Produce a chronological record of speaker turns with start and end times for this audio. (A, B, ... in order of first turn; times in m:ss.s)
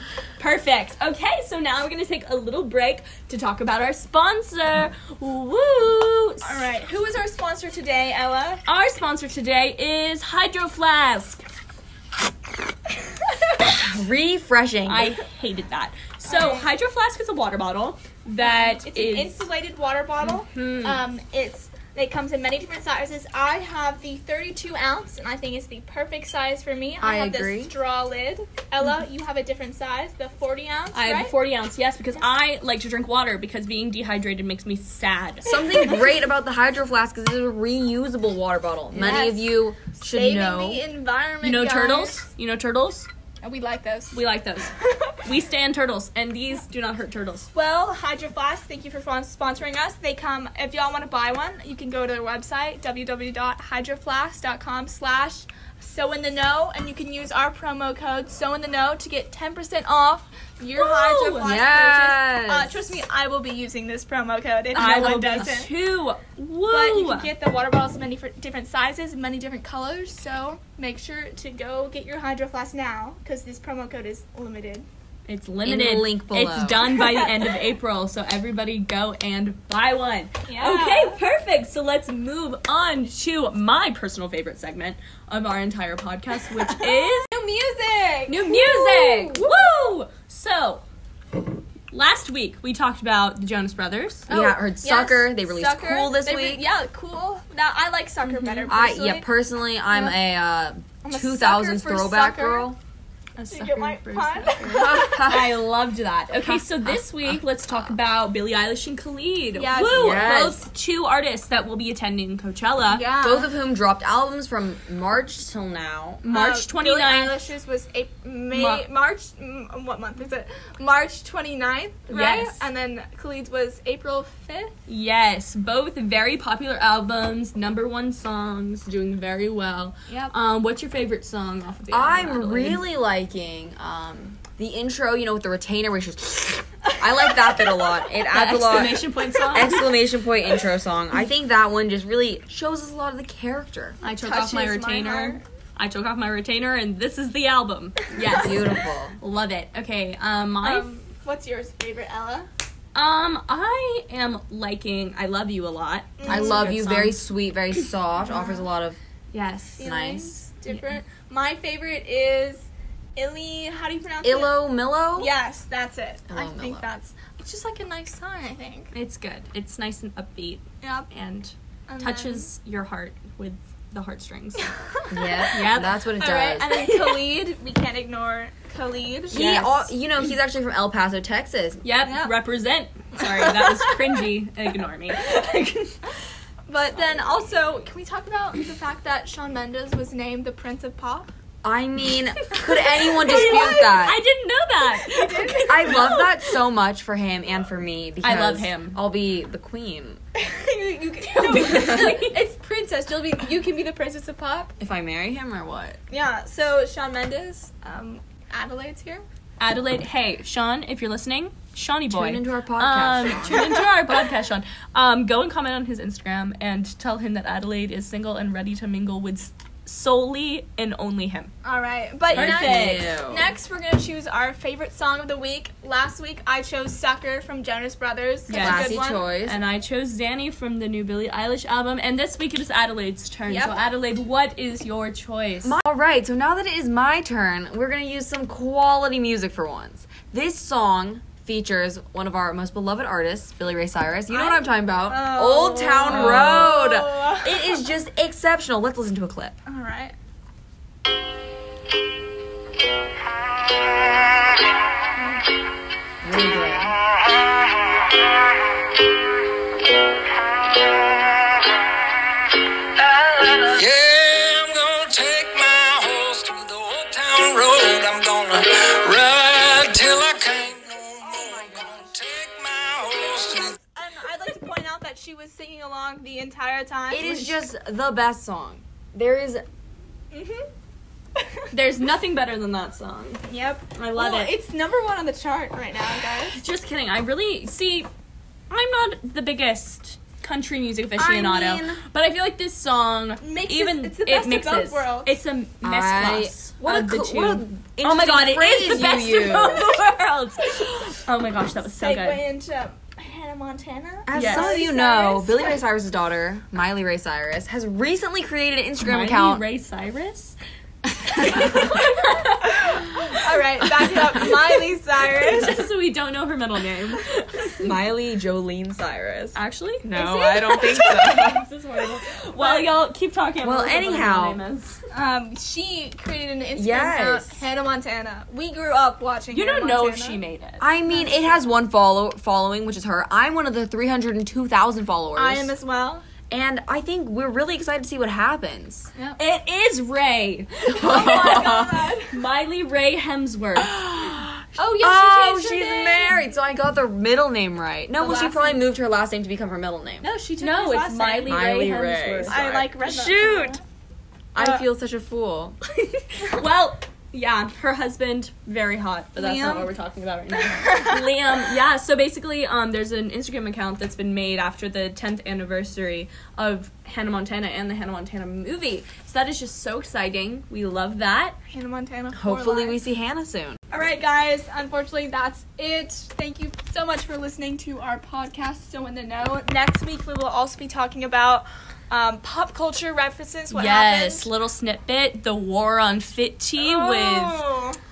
0:00.4-0:06.6 A
0:06.4-0:08.6 B
0:08.7-0:11.4 A
0:13.7-0:15.1 C
0:14.9-0:19.5 A
0:16.3-0:16.7 B
0:18.4-0:31.4 B
0:20.2-0:21.0 A
0:27.0-0:27.7 C
0:30.9-0:35.6 A
0:35.4-0:40.9 C
0:39.0-0:42.2 B
0:41.4-0:43.1 A
0:43.4-0:44.2 B
0:44.1-0:47.5 A
0:44.8-0:45.2 B
0:47.6-1:05.7 B
1:00.8-1:01.6 A
1:01.4-1:03.0 C
1:04.7-1:07.3 A
1:06.7-1:14.9 B
1:15.3-1:27.3 A
1:15.6-1:17.0 C
1:20.5-1:21.2 B
1:26.5-1:29.5 B
1:28.3-1:30.8 A
1:31.9-1:34.3 A
1:34.3-1:39.3 B
1:34.3-1:36.6 C
1:38.2-1:38.8 A
1:38.7-1:42.8 C
1:41.0-1:42.7 B
1:43.4-1:53.1 A
1:43.5-1:45.3 B
1:44.7-1:45.6 C
1:46.4-1:47.0 C
1:49.5-1:50.2 B
1:49.9-1:50.6 C
1:52.9-1:53.5 B
1:53.2-1:56.2 C
1:56.2-1:57.5 A
1:56.3-2:04.7 B
1:58.5-1:58.8 A
2:02.1-2:02.7 A
2:04.9-2:12.8 A
2:11.9-2:24.0 C
2:18.3-2:19.8 A
2:24.0-2:30.9 A
2:24.0-2:25.4 B
2:28.2-2:29.2 C
2:30.6-2:32.5 B
2:32.9-2:37.2 A
2:36.2-2:36.7 B
2:36.3-2:39.0 C
2:38.2-2:38.7 B
2:39.3-2:39.9 A
2:39.8-2:44.5 B
2:39.8-2:40.4 C
2:40.7-2:41.0 A
2:44.2-2:45.3 C
2:45.2-2:48.9 B
2:46.3-2:46.9 C
2:48.9-2:54.7 A
2:50.8-2:51.1 B
2:51.9-2:52.5 B
2:55.1-2:56.8 C
2:55.5-2:57.3 A
2:56.2-2:59.4 B
2:59.3-2:59.9 A
2:59.3-3:01.8 C
3:01.8-3:05.9 A
3:02.0-3:02.3 B
3:03.2-3:04.0 B
3:06.7-3:11.3 B
3:11.6-3:14.2 C
3:12.5-3:16.3 A
3:14.9-3:16.1 B
3:15.7-3:20.2 C
3:18.2-3:19.0 A
3:20.4-3:24.7 B
3:21.2-3:22.3 A
3:24.8-3:26.0 C
3:26.1-3:29.2 B
3:29.6-3:41.5 A
3:32.1-3:33.8 C
3:41.6-3:49.2 B
3:42.3-3:43.2 A
3:42.3-3:43.5 C
3:48.5-3:55.8 A
3:48.6-3:49.6 C
3:53.5-3:53.8 B
3:55.6-4:09.6 C
4:04.3-4:07.8 B
4:06.1-4:06.7 A
4:09.7-4:10.1 B
4:15.2-4:15.4 B
4:16.2-4:17.0 C
4:23.6-4:33.7 D
4:31.2-4:32.1 C
4:33.3-4:37.6 B
4:37.1-4:39.6 C
4:40.3-4:40.7 B
4:41.4-4:41.6 B
4:41.7-4:43.4 A
4:43.5-4:46.6 B
4:43.9-4:44.5 A
4:46.4-4:48.1 A
4:48.7-5:02.4 A
4:51.2-4:52.0 C
4:53.4-4:55.4 B
4:55.8-4:59.9 C
5:01.8-5:05.8 B
5:04.3-5:09.7 C
5:04.3-5:04.8 A
5:09.0-5:10.6 A
5:11.3-5:11.7 C
5:11.4-5:13.4 A
5:12.4-5:15.8 B
5:14.0-5:14.5 A
5:15.3-5:17.9 A
5:17.8-5:21.7 C
5:19.6-5:25.0 A
5:22.6-5:22.9 B
5:23.6-5:24.6 C
5:25.1-5:30.4 B
5:26.8-5:27.6 C
5:29.5-5:30.8 A
5:30.8-5:35.7 C
5:31.1-5:31.6 B
5:35.4-5:36.3 B
5:36.5-5:39.1 C
5:39.4-5:44.0 A
5:40.9-5:42.1 C
5:41.0-5:42.4 B
5:43.8-5:50.3 C
5:44.8-5:46.5 B
5:48.2-5:48.9 B
5:50.2-5:51.6 B
5:50.3-5:52.7 A
5:51.5-5:53.8 C
5:52.4-5:53.8 B
5:54.6-5:55.8 C
5:54.6-5:54.9 B
5:56.2-6:11.6 A
5:59.4-5:59.9 B
6:00.5-6:01.4 B
6:11.7-6:13.0 B
6:12.3-6:13.8 C
6:13.9-6:24.5 B
6:23.7-6:27.6 A
6:26.8-6:28.0 B